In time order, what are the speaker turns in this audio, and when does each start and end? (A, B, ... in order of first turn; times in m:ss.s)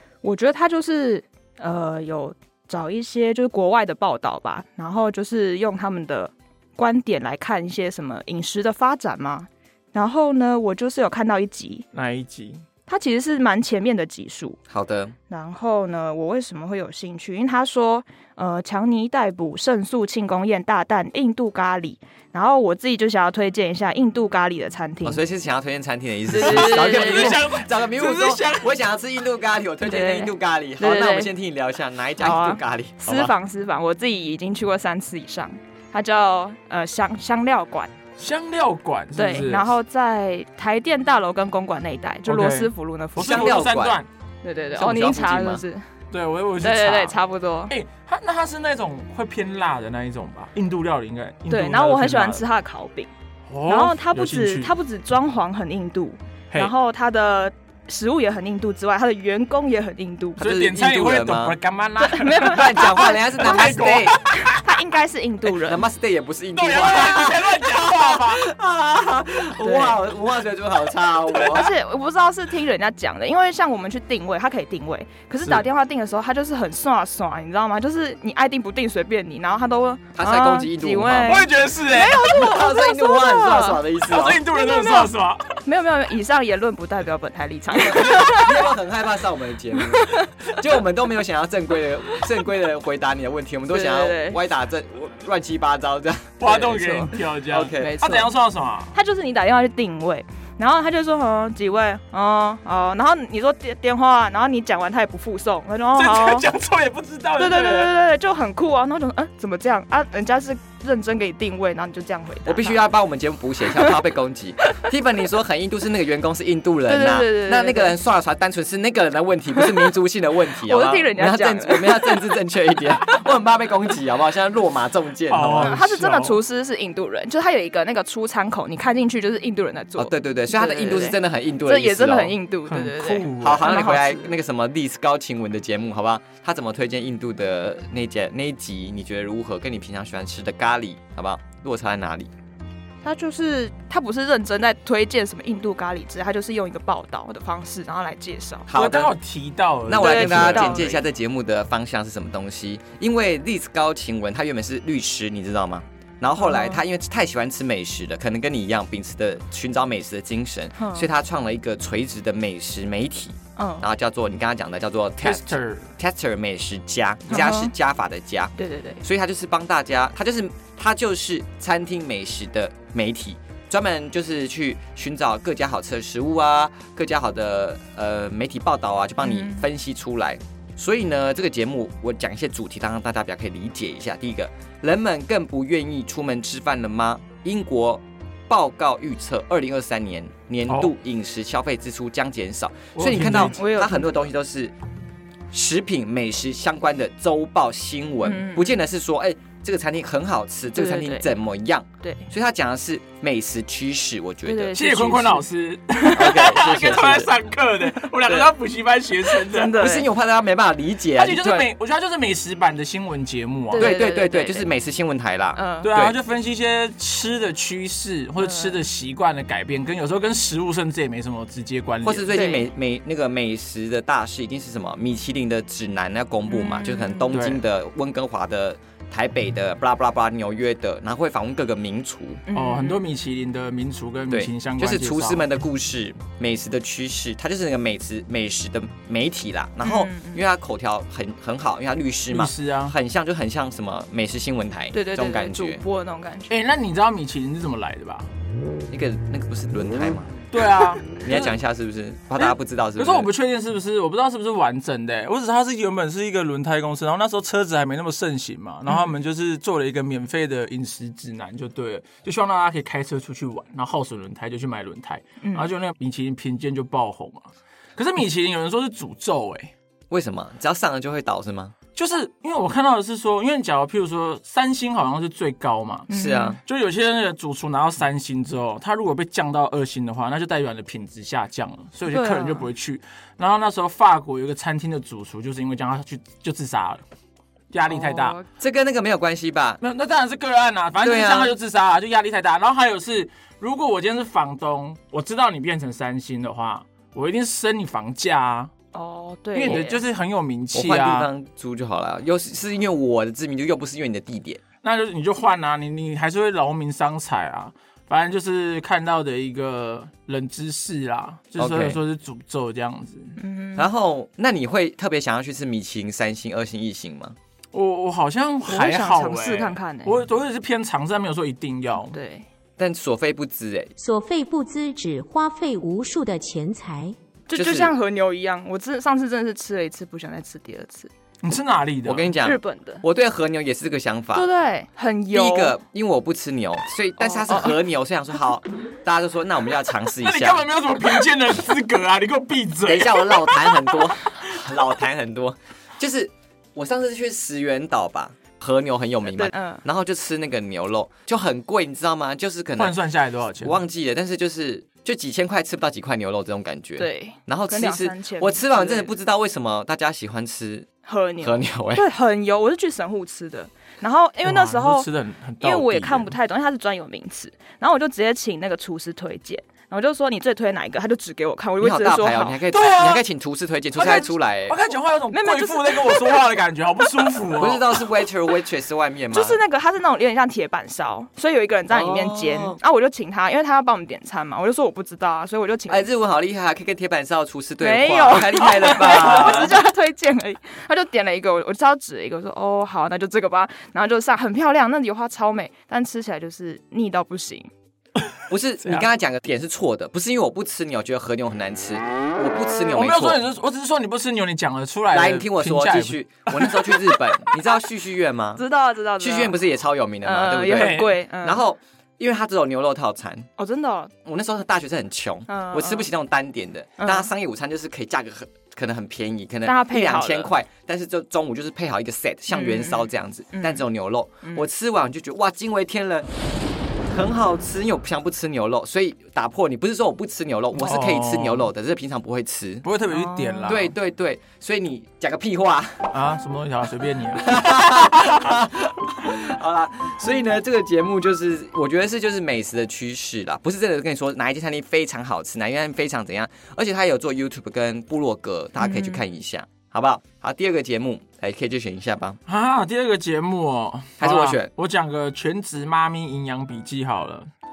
0:00.2-0:11.8 A
0:11.9-0:12.6 B
0:12.9-0:14.6 A
0:14.7-0:15.1 C
0:15.3-0:25.2 A
0:25.0-0:33.3 C
0:26.3-0:27.4 A
0:26.4-0:28.7 B
0:29.8-0:31.3 A
0:32.2-0:37.9 A
0:38.2-0:39.7 B
0:39.1-0:43.6 A
0:42.2-0:44.1 B
0:43.2-0:44.0 C
0:44.4-0:45.8 A
0:44.7-0:45.6 C
0:46.1-0:52.4 B
0:46.6-0:47.7 A
0:51.5-0:53.1 A
0:53.5-0:54.7 B
0:53.6-1:00.4 A
1:00.4-1:04.8 B
1:00.4-1:01.6 C
1:02.0-1:05.8 A
1:02.4-1:04.2 C
1:05.6-1:11.7 C
1:06.5-1:08.5 B
1:09.6-1:10.0 A
1:11.3-1:23.8 A
1:20.1-1:21.4 C
1:21.2-1:22.3 B
1:22.2-1:24.4 C
1:24.1-1:25.6 B
1:24.5-1:28.7 A
1:27.7-1:37.9 C
1:29.8-1:30.6 A
1:33.7-1:34.4 A
1:36.4-1:38.9 B
1:37.7-1:38.3 A
1:38.9-1:46.5 A
1:46.0-1:48.0 B
1:47.4-1:52.8 A
1:52.4-2:05.8 C
1:56.9-1:57.9 A
1:59.6-1:59.9 A
2:00.5-2:02.2 A
2:05.3-2:06.4 B
2:05.6-2:14.2 A
2:10.0-2:12.4 C
2:12.7-2:14.1 B
2:13.4-2:22.3 C
2:23.0-2:28.7 A
2:28.7-2:29.1 C
2:28.7-2:30.9 B
2:29.9-3:14.7 C
2:30.0-2:31.0 A
2:36.4-2:36.8 A
2:40.8-2:41.1 A
2:43.6-2:43.8 A
2:45.2-2:45.9 B
2:47.3-2:47.7 A
2:48.6-2:49.0 A
2:59.2-2:59.6 A
3:12.9-3:13.6 B
3:13.5-3:14.2 A
3:15.5-3:24.8 C
3:18.2-3:18.8 A
3:20.7-3:21.3 A
3:22.0-3:22.3 A
3:24.4-3:25.4 A
3:24.7-3:29.8 B
3:26.1-3:27.3 C
3:28.0-3:28.5 A
3:29.3-3:30.1 A
3:29.8-3:31.7 C
3:31.1-3:33.9 B
3:33.7-3:34.7 A
3:33.8-3:36.2 C
3:35.5-3:35.9 A
3:35.8-3:42.4 B
3:38.4-3:38.8 A
3:42.0-3:52.4 C
3:42.3-3:42.7 A
3:46.5-3:47.3 A
3:47.3-3:47.6 B
3:52.5-3:53.0 A
3:52.5-3:55.4 B
3:54.3-4:05.8 C
3:59.8-4:00.4 A
4:02.3-4:02.9 B
4:04.9-4:06.6 A
4:06.5-4:08.3 B
4:08.9-4:10.3 C
4:10.5-4:11.5 B
4:11.2-4:13.3 C
4:12.4-4:29.7 B
4:18.8-4:19.1 A
4:25.4-4:25.7 A
4:30.1-4:31.7 C
4:31.9-4:36.1 B
4:36.1-4:36.6 A
4:36.1-4:36.6 C
4:36.6-4:47.0 B
4:42.1-4:42.7 A
4:47.7-4:48.4 B
4:47.9-4:48.4 A
4:48.6-4:49.8 C
4:49.8-4:58.7 B
4:51.0-4:51.5 C
4:58.9-5:00.0 A
4:59.5-5:01.3 B
5:00.7-5:04.6 C
5:04.8-5:13.4 B
5:11.6-5:12.0 C
5:13.4-5:13.9 A
5:13.8-5:17.4 C
5:17.7-5:22.1 B
5:18.6-5:20.2 A
5:22.1-5:22.4 A
5:22.8-5:23.9 C
5:24.0-5:27.2 D
5:27.5-5:31.1 A
5:27.5-5:27.9 C
5:31.4-5:32.3 B
5:32.0-5:34.5 C
5:32.4-5:33.0 A
5:34.3-5:35.8 A
5:35.3-5:40.6 C
5:37.2-5:37.8 A
5:40.2-5:44.0 B
5:42.8-5:53.0 C
5:49.3-5:49.8 A
5:52.8-5:53.8 B
5:53.6-6:00.9 C
5:57.0-5:59.1 A
6:01.0-6:05.1 A
6:01.4-6:02.0 C
6:04.4-6:06.3 B
6:05.6-6:12.6 A
6:11.8-6:14.8 C
6:12.7-6:13.2 B
6:14.0-6:18.0 B
6:15.3-6:16.4 A
6:17.6-6:19.6 C
6:19.3-6:26.1 A
6:21.9-6:22.8 C
6:25.9-6:29.7 C
6:27.8-6:37.7 A
6:29.0-6:29.6 B
6:38.5-6:43.4 C
6:38.8-6:39.1 B
6:42.9-6:47.3 B
6:45.1-6:48.6 C
6:48.6-6:49.5 A
6:49.2-6:53.5 C
6:50.2-6:51.6 A
6:50.7-6:51.1 B
6:53.6-6:54.1 A
6:54.2-7:06.3 C
6:55.5-6:56.1 A
6:57.0-6:57.3 A
6:59.6-7:00.5 A
7:02.5-7:03.8 A
7:07.1-7:12.8 C
7:10.8-7:11.7 B
7:12.8-7:13.9 B
7:13.1-7:13.8 A
7:13.7-7:16.1 C
7:16.1-7:18.0 B
7:17.4-7:32.4 C
7:28.8-7:29.2 A
7:32.5-7:37.5 B
7:34.2-7:34.7 C